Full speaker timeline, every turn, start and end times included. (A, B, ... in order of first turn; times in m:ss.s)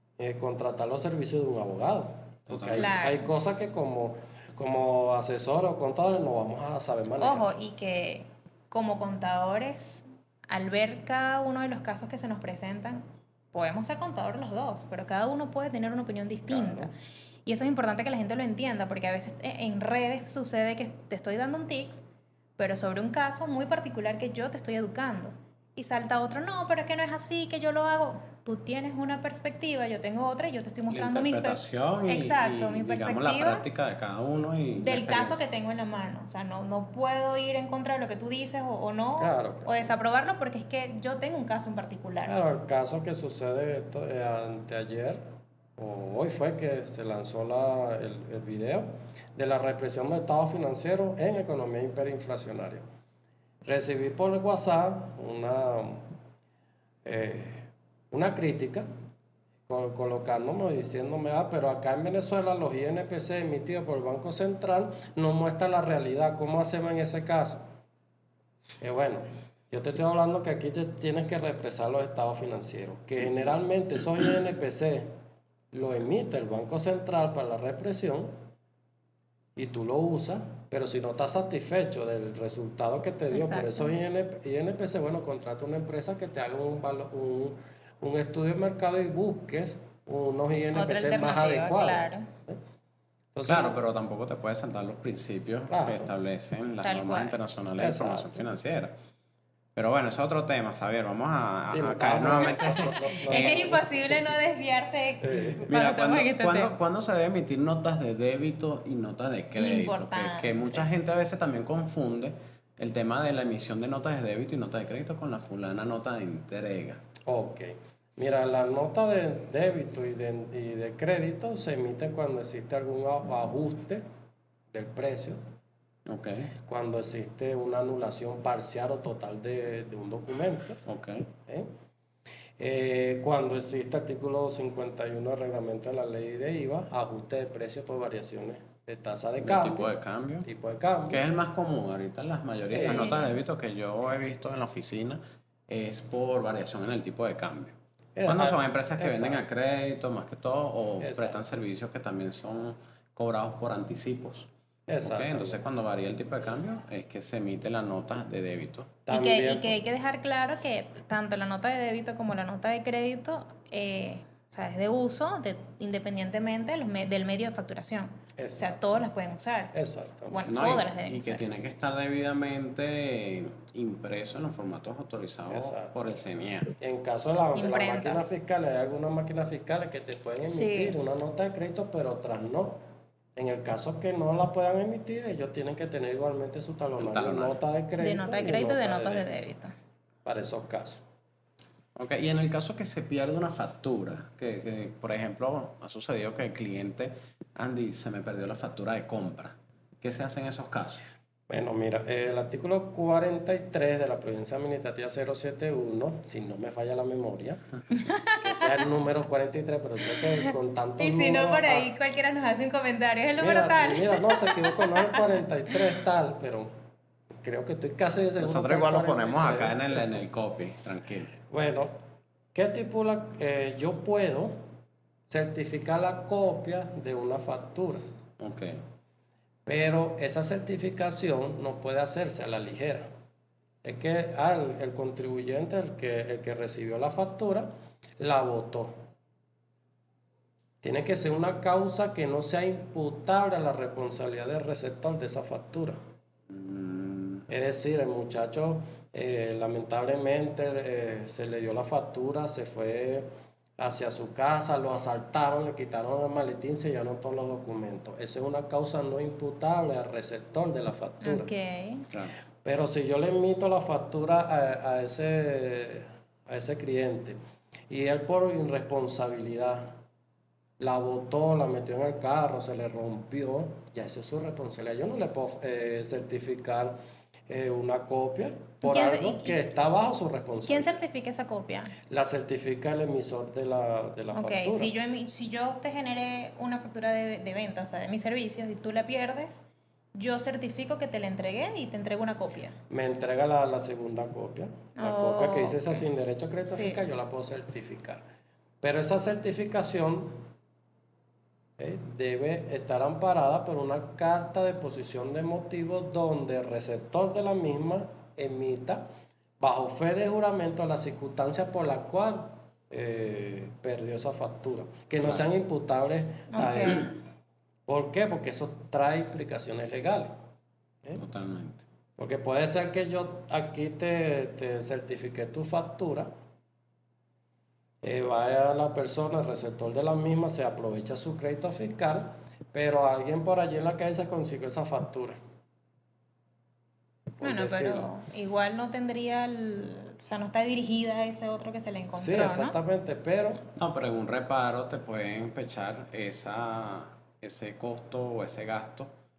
0:00.2-0:07.5 A
0:02.5-0:02.9 B
0:02.8-0:03.3 C
0:07.2-0:16.9 C
0:16.5-0:16.9 A
0:17.4-0:22.0 C
0:22.6-0:33.6 C
0:30.9-0:35.5 B
0:34.8-0:42.3 C
0:39.2-0:39.7 A
0:42.2-0:45.2 A
0:45.8-0:52.8 A
0:53.6-0:56.1 A
0:57.0-0:58.9 A
0:59.7-1:07.6 A
1:08.8-1:15.1 A
1:15.7-1:18.3 A
1:19.6-1:32.6 A
1:23.3-1:24.0 C
1:30.7-1:32.3 C
1:33.3-1:33.8 A
1:33.4-1:38.9 B
1:35.7-1:36.1 A
1:36.8-1:37.4 C
1:37.8-1:38.4 A
1:39.7-1:43.8 B
1:41.7-1:44.2 A
1:43.3-1:46.8 C
1:45.2-1:45.7 A
1:45.7-1:57.0 B
1:49.5-1:50.8 C
1:57.2-2:04.0 A
2:04.7-2:05.4 A
2:06.0-2:06.5 B
2:06.6-2:10.8 A
2:10.8-2:11.2 B
2:12.6-2:21.2 A
2:19.4-2:20.5 B
2:21.1-2:34.5 B
2:22.7-2:23.2 A
2:22.7-2:23.3 C
2:28.2-2:29.4 A
2:31.0-2:31.4 A
2:34.9-2:35.6 A
2:35.0-2:38.9 B
2:39.0-2:39.8 A
2:39.1-2:49.7 C
2:48.4-2:49.0 A
2:49.7-2:50.5 A
2:50.3-2:51.4 C
2:50.4-2:56.7 B
2:55.5-2:55.9 A
2:56.8-3:02.8 A
2:57.5-2:58.3 C
3:00.5-3:01.0 C
3:03.4-3:09.3 A
3:07.0-3:07.6 B
3:08.0-3:09.7 C
3:10.2-3:11.0 A
3:12.0-3:21.1 B
3:21.5-3:27.6 A
3:27.9-3:28.8 C
3:28.4-3:31.9 A
3:30.2-3:35.7 C
3:33.4-3:36.7 A
3:37.4-3:40.2 A
3:38.4-3:41.3 B
3:41.5-3:41.9 A
3:42.5-3:44.6 A
3:45.3-3:48.0 A
3:48.4-3:48.8 B
3:49.6-3:53.1 A
3:53.8-3:59.0 A
4:00.8-4:06.0 A
4:06.5-4:07.4 B
4:07.5-4:21.5 A
4:21.2-4:22.0 C
4:22.6-4:27.4 A
4:27.9-4:30.0 A
4:30.8-4:37.0 A
4:37.5-4:41.0 A
4:38.8-4:39.6 C
4:40.6-4:41.9 C
4:42.1-4:44.9 A
4:44.3-4:49.6 C
4:50.1-4:52.8 C
4:52.9-4:58.2 A
4:55.0-4:56.0 C
4:56.7-4:57.0 C
4:58.8-5:00.4 A
5:01.8-5:09.0 A
5:09.6-5:17.2 A
5:16.5-5:17.1 C
5:17.9-5:20.3 A
5:21.2-5:21.9 B
5:22.2-5:26.3 A
5:28.0-5:35.4 A
5:37.4-5:38.1 A
5:37.4-5:42.8 C
5:42.1-5:43.6 A
5:43.8-5:49.1 B